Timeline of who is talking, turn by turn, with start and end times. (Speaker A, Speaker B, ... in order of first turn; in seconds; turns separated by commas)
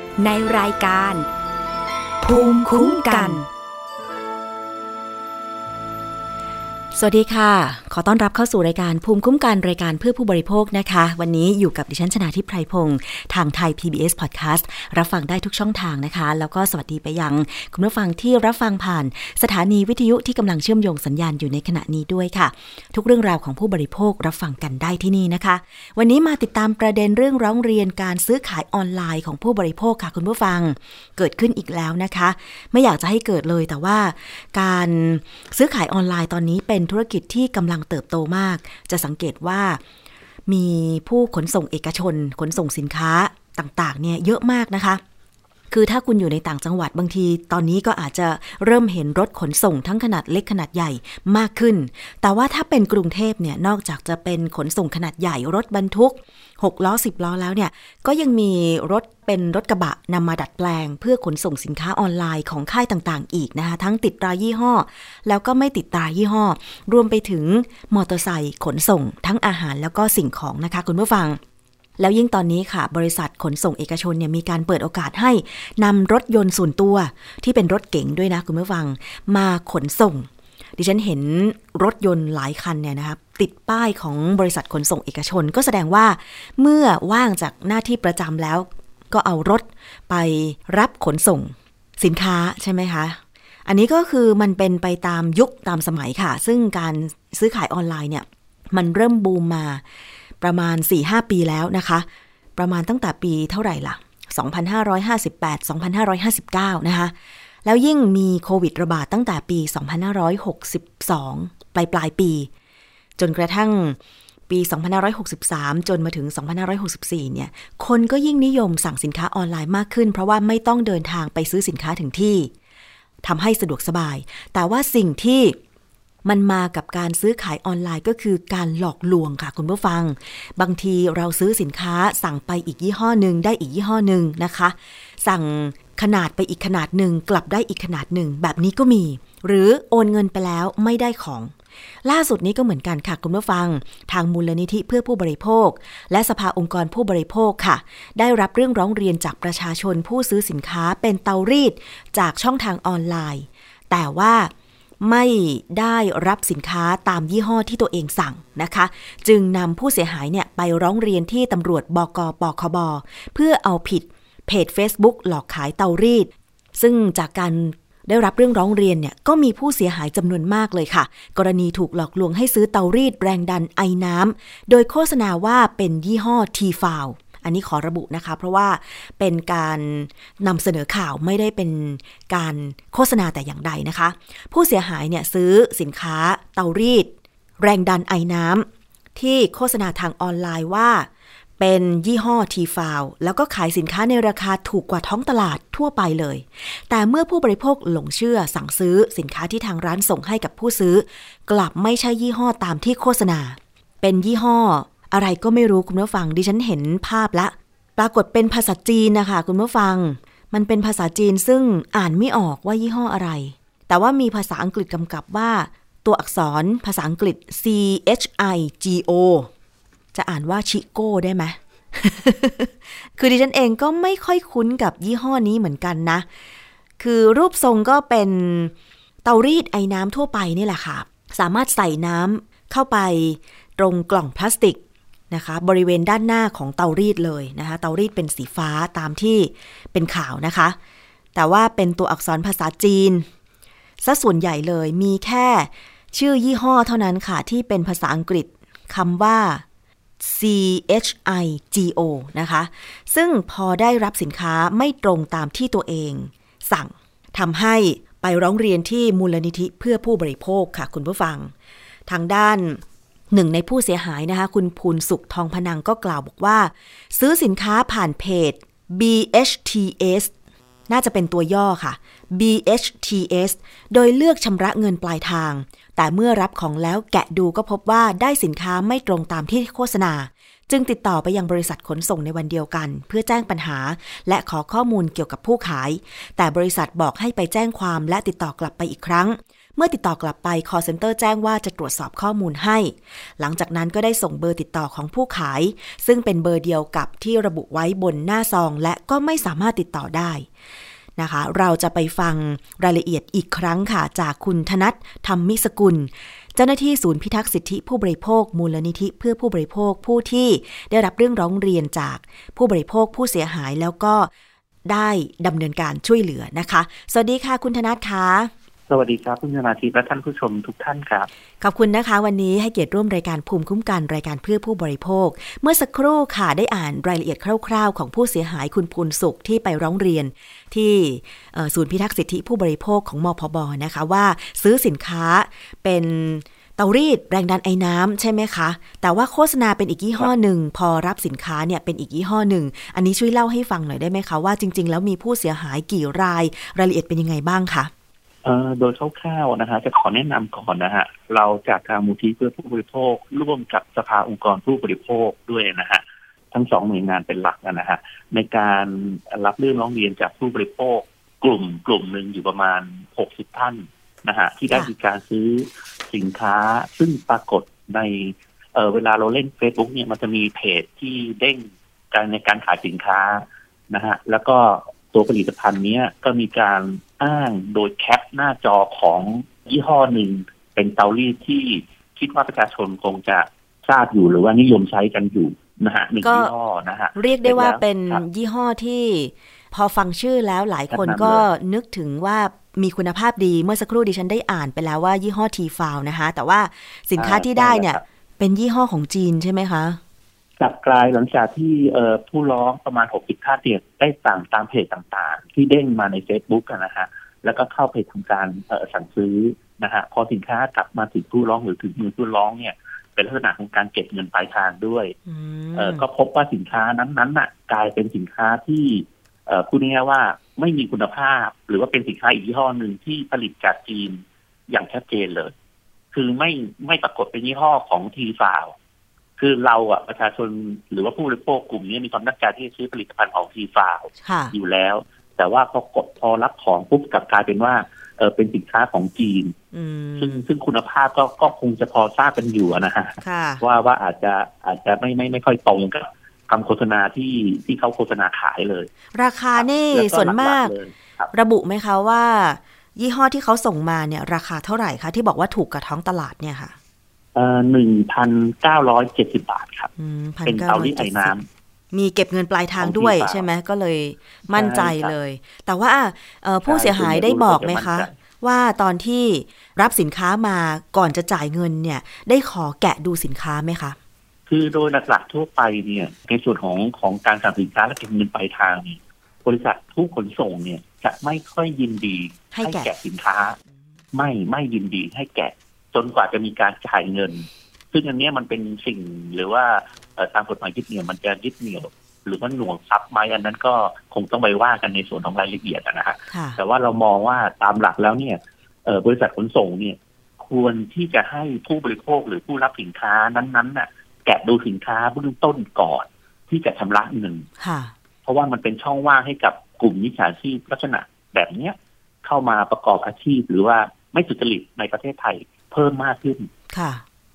Speaker A: 0.2-1.3, Speaker A: 2.2-3.5, Speaker B: 6.9-39.8, Speaker B: 40.5-45.0, Speaker B: 45.7-71.4, Speaker B: 72.0-99.8, Speaker B: 100.4-112.5, Speaker B: 113.2-114.0, Speaker B: 114.5-122.5, Speaker B: 123.2-125.6, Speaker B: 126.2-219.5, Speaker B: 220.1-226.3, Speaker B: 227.0-234.8, Speaker B: 235.3-240.8, Speaker B: 241.3-243.3, Speaker B: 244.0-249.6, Speaker B: 250.2-261.5, Speaker B: 262.1-270.3, Speaker B: 270.9-300.5, Speaker B: 301.2-314.3, Speaker B: 314.9-318.5, Speaker C: 318.9-321.3, Speaker B: 321.6-347.9, Speaker C: 348.4-388.2, Speaker B: 386.2-386.5, Speaker B: 387.1-400.0, Speaker C: 390.9-391.4, Speaker C: 397.2-398.0, Speaker C: 400.6-415.2, Speaker B: 415.3-416.1, Speaker C: 415.8-425.5, Speaker C: 426.1-428.8, Speaker C: 429.4-439.6, Speaker B: 434.2-434.5, Speaker B: 439.7-440.5, Speaker C: 440.2-448.9, Speaker B: 443.2-443.6, Speaker B: 449.1-450.7, Speaker C: 449.6-451.3, Speaker B: 451.3-456.7, Speaker C: 457.4-459.9, Speaker B: 460.0-461.3, Speaker C: 460.4-461.5, Speaker B: 461.9-474.0, Speaker C: 462.8-463.4, Speaker C: 464.5-465.1, Speaker C: 466.6-468.1, Speaker C: 474.5-483.6, Speaker B: 482.5-482.9, Speaker C: 484.1-507.5, Speaker B: 496.3-496.6, Speaker B: 507.6-507.9, Speaker C: 508.3-516.5, Speaker B: 516.7-517.0